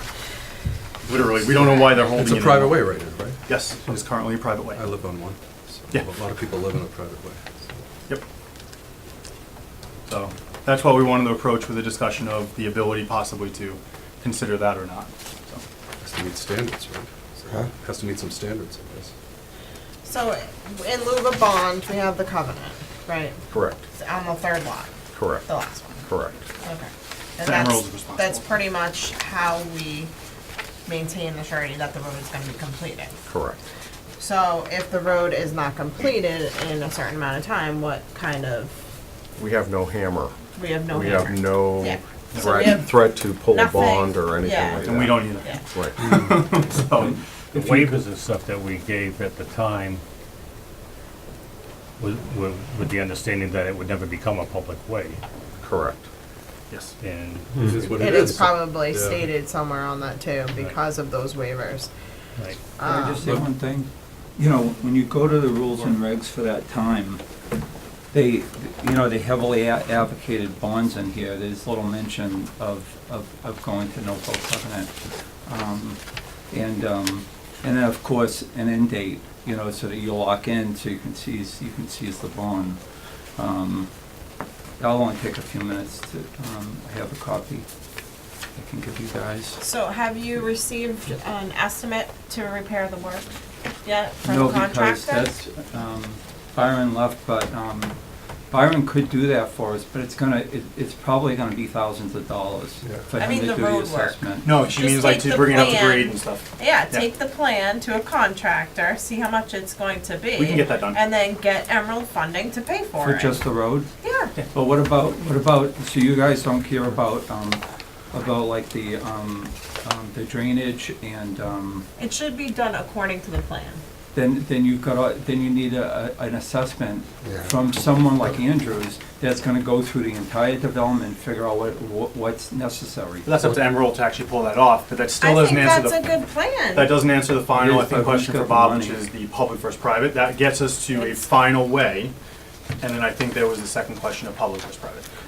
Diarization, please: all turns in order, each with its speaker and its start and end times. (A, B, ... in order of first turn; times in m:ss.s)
0:01.0-0:02.8 A
0:01.4-0:03.4 B
0:03.5-0:04.8 A
0:04.7-0:07.4 B
0:10.1-0:15.6 A
0:16.0-0:19.1 B
0:20.0-0:23.4 C
0:23.5-0:23.8 D
0:23.9-0:26.0 C
0:25.1-0:25.5 D
0:26.1-0:26.4 D
0:26.6-0:30.1 C
0:27.4-0:28.6 A
0:30.8-0:33.2 C
0:33.3-0:33.6 D
0:34.2-0:38.7 C
0:39.4-0:46.2 D
0:40.5-0:45.6 C
0:42.3-0:42.6 A
0:44.8-0:47.2 A
0:47.5-0:50.0 E
0:47.5-0:47.9 F
0:52.0-0:55.2 E
0:55.6-0:56.1 D
0:56.7-0:56.9 A
0:57.0-0:58.2 E
0:57.6-0:59.3 B
0:57.9-1:01.9 C
1:02.4-1:02.7 E
1:02.8-1:03.3 C
1:02.8-1:07.2 F
1:08.1-1:14.9 F
1:15.4-1:16.0 F
1:16.5-1:22.8 F
1:23.4-1:23.9 F
1:24.8-1:27.6 F
1:28.5-1:29.6 F
1:29.6-1:33.3 C
1:33.8-1:35.3 C
1:34.2-1:38.0 F
1:38.5-1:44.6 F
1:43.2-1:53.4 C
1:44.4-1:47.1 A
1:50.3-1:51.0 A
1:53.0-1:53.9 F
1:54.0-1:54.3 C
1:54.5-1:57.6 F
1:58.1-2:01.9 F
2:02.0-2:03.8 C
2:04.1-2:13.6 F
2:13.2-2:16.0 A
2:15.2-2:17.0 C
2:16.7-2:22.1 A
2:17.5-2:19.0 F
2:20.9-2:21.2 C
2:22.8-2:25.1 A